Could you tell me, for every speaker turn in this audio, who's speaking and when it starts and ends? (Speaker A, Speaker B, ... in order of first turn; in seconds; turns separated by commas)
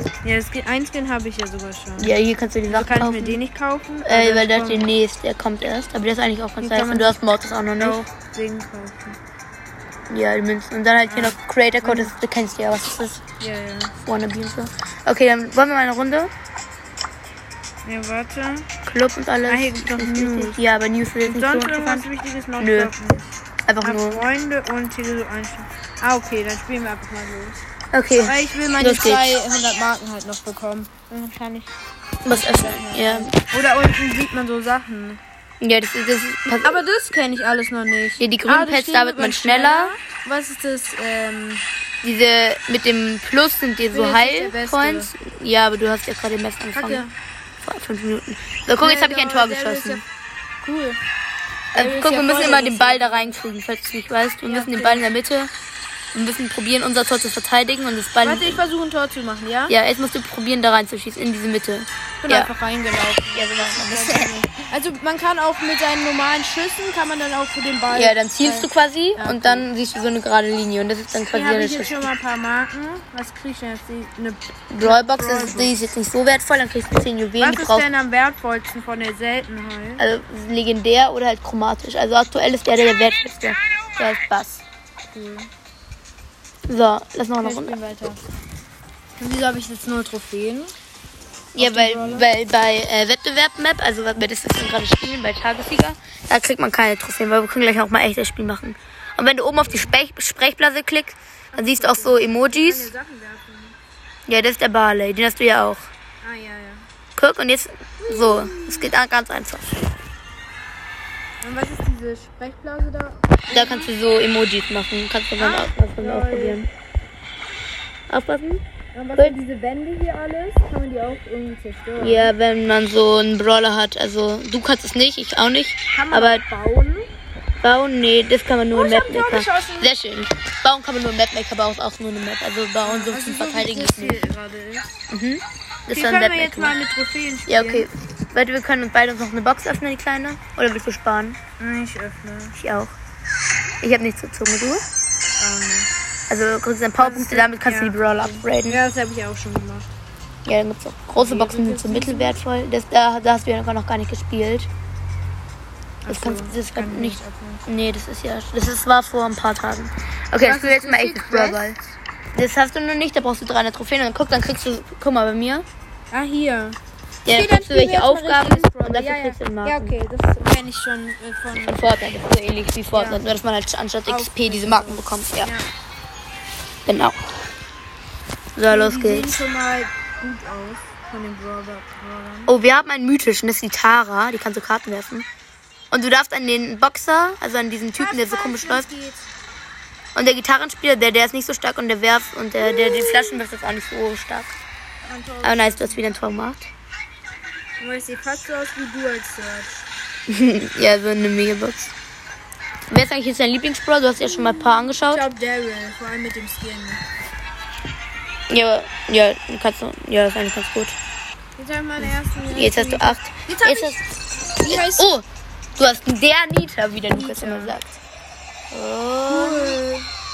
Speaker A: 0.2-2.2, Speaker B: 2.0-3.4, Speaker A: 2.7-4.9, Speaker B: 4.0-8.0, Speaker A: 6.6-7.1, Speaker A: 7.8-9.2, Speaker B: 10.1-13.2, Speaker A: 11.1-12.1, Speaker A: 13.4-13.9, Speaker B: 14.0-16.3, Speaker A: 17.9-18.7, Speaker B: 18.9-22.9, Speaker A: 19.5-20.6, Speaker A: 21.3-23.2, Speaker B: 23.7-24.2, Speaker A: 23.8-27.6, Speaker B: 27.9-29.4, Speaker A: 28.2-31.8, Speaker B: 32.2-33.3, Speaker A: 32.3-35.2, Speaker B: 35.6-36.8, Speaker A: 36.6-41.7, Speaker B: 38.2-39.9, Speaker B: 42.0-47.0, Speaker A: 43.9-45.1, Speaker A: 46.7-47.1, Speaker B: 47.6-50.0, Speaker A: 48.8-50.0, Speaker A: 50.6-51.0, Speaker A: 51.7-53.4, Speaker B: 51.8-55.5, Speaker A: 54.4-55.1, Speaker B: 56.1-58.6, Speaker A: 58.2-59.7, Speaker B: 59.7-62.5, Speaker A: 62.2-69.7, Speaker B: 63.3-64.3, Speaker B: 67.9-72.1, Speaker A: 71.3-75.8, Speaker B: 74.7-77.9, Speaker A: 77.4-80.0, Speaker B: 80.0-84.6, Speaker A: 85.1-85.5, Speaker B: 86.7-87.8, Speaker A: 87.4-88.2, Speaker A: 89.2-90.8, Speaker B: 91.5-102.9, Speaker A: 91.6-92.3, Speaker A: 101.5-103.8, Speaker B: 104.3-105.9, Speaker A: 106.2-106.8, Speaker B: 107.2-109.8, Speaker A: 108.0-108.9, Speaker A: 111.4-113.9, Speaker B: 113.5-116.7, Speaker A: 115.4-116.6, Speaker B: 118.1-118.6, Speaker A: 118.9-122.3, Speaker B: 122.0-126.4, Speaker A: 125.9-127.1, Speaker B: 127.6-134.2, Speaker A: 128.7-129.9, Speaker A: 132.8-134.9, Speaker B: 135.1-136.8, Speaker A: 135.9-137.9, Speaker B: 137.5-141.4, Speaker A: 141.6-142.6, Speaker B: 142.6-142.9, Speaker B: 143.8-144.8, Speaker A: 145.4-145.9, Speaker B: 146.3-148.8, Speaker A: 147.0-149.9, Speaker B: 150.4-154.7, Speaker A: 151.2-152.4, Speaker A: 156.0-157.7, Speaker B: 156.1-161.8, Speaker A: 160.4-161.9, Speaker B: 162.3-165.7, Speaker A: 166.1-166.8, Speaker B: 167.2-169.9, Speaker A: 167.3-172.0, Speaker B: 171.6-175.5, Speaker A: 172.9-173.4, Speaker A: 174.1-175.7, Speaker B: 176.9-177.3, Speaker B: 178.6-179.4, Speaker A: 178.7-182.6, Speaker B: 182.5-185.3, Speaker B: 185.9-188.9, Speaker A: 188.0-189.3, Speaker B: 190.2-194.6, Speaker A: 192.7-193.4, Speaker A: 195.0-196.0, Speaker B: 195.4-196.7, Speaker A: 197.8-199.9, Speaker B: 200.3-201.9, Speaker B: 202.9-205.2, Speaker A: 204.2-207.0, Speaker B: 208.5-211.0, Speaker A: 211.6-214.0, Speaker B: 212.0-214.0, Speaker A: 214.6-215.1, Speaker B: 214.7-215.3, Speaker B: 215.8-218.0, Speaker A: 217.1-217.8, Speaker B: 218.7-219.8, Speaker A: 219.3-220.1